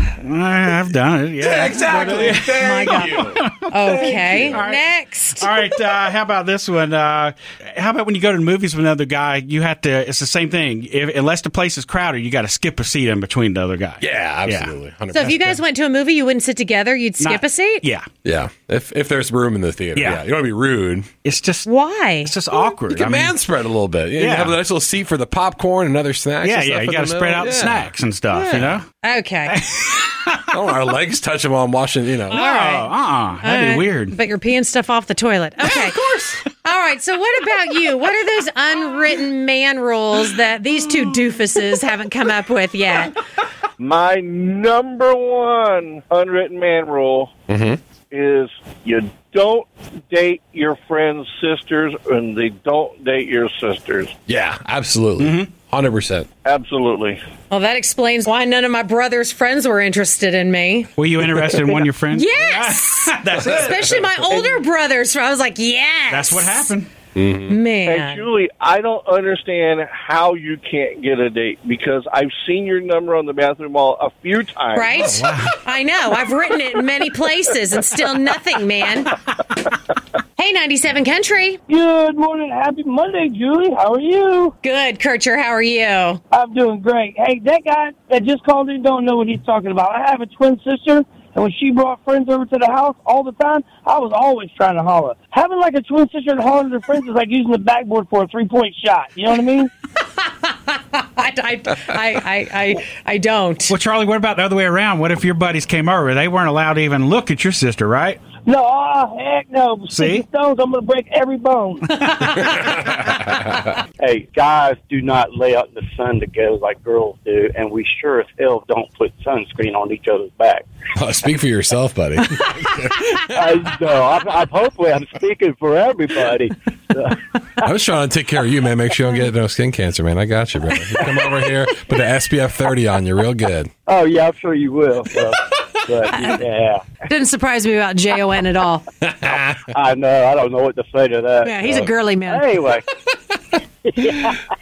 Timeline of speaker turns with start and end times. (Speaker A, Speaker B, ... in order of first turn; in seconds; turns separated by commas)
Speaker A: 0.2-4.9, Speaker B: 1.4-3.4, Speaker C: 2.4-5.5, Speaker B: 4.2-4.6, Speaker A: 5.4-15.6, Speaker B: 14.0-15.4, Speaker C: 15.1-17.9, Speaker A: 17.2-18.1, Speaker B: 18.2-21.1, Speaker A: 19.9-20.2, Speaker A: 21.2-21.7, Speaker C: 21.6-22.7, Speaker A: 22.2-23.4, Speaker B: 22.9-27.9, Speaker A: 24.2-24.6, Speaker A: 26.4-28.9, Speaker C: 28.3-29.6, Speaker A: 29.5-30.4, Speaker B: 30.5-32.4, Speaker A: 32.3-34.1, Speaker C: 32.3-32.9, Speaker C: 33.4-36.0, Speaker B: 35.7-36.4, Speaker C: 36.6-43.1, Speaker D: 43.8-47.3, Speaker B: 47.5-47.8, Speaker D: 48.1-54.1, Speaker B: 54.3-56.3, Speaker A: 55.2-55.5, Speaker D: 56.5-57.2, Speaker C: 57.5-60.9, Speaker A: 61.0-64.0, Speaker C: 62.1-66.7, Speaker A: 66.1-66.9, Speaker B: 67.2-67.5, Speaker C: 67.5-68.3, Speaker D: 67.8-75.1, Speaker C: 74.7-79.2, Speaker A: 75.0-75.5, Speaker C: 80.4-81.6, Speaker E: 81.7-84.5, Speaker C: 84.6-86.2, Speaker E: 86.3-99.7, Speaker C: 100.2-103.7, Speaker A: 103.7-108.2, Speaker E: 108.5-112.0, Speaker A: 109.9-110.3, Speaker A: 112.0-112.4, Speaker F: 114.0-120.6, Speaker B: 121.0-123.2, Speaker F: 123.2-127.2, Speaker B: 127.6-133.7, Speaker F: 133.9-136.8, Speaker C: 136.1-136.4, Speaker C: 137.1-138.9, Speaker B: 139.2-139.5, Speaker F: 139.5-142.8, Speaker C: 141.4-142.6, Speaker F: 143.9-144.4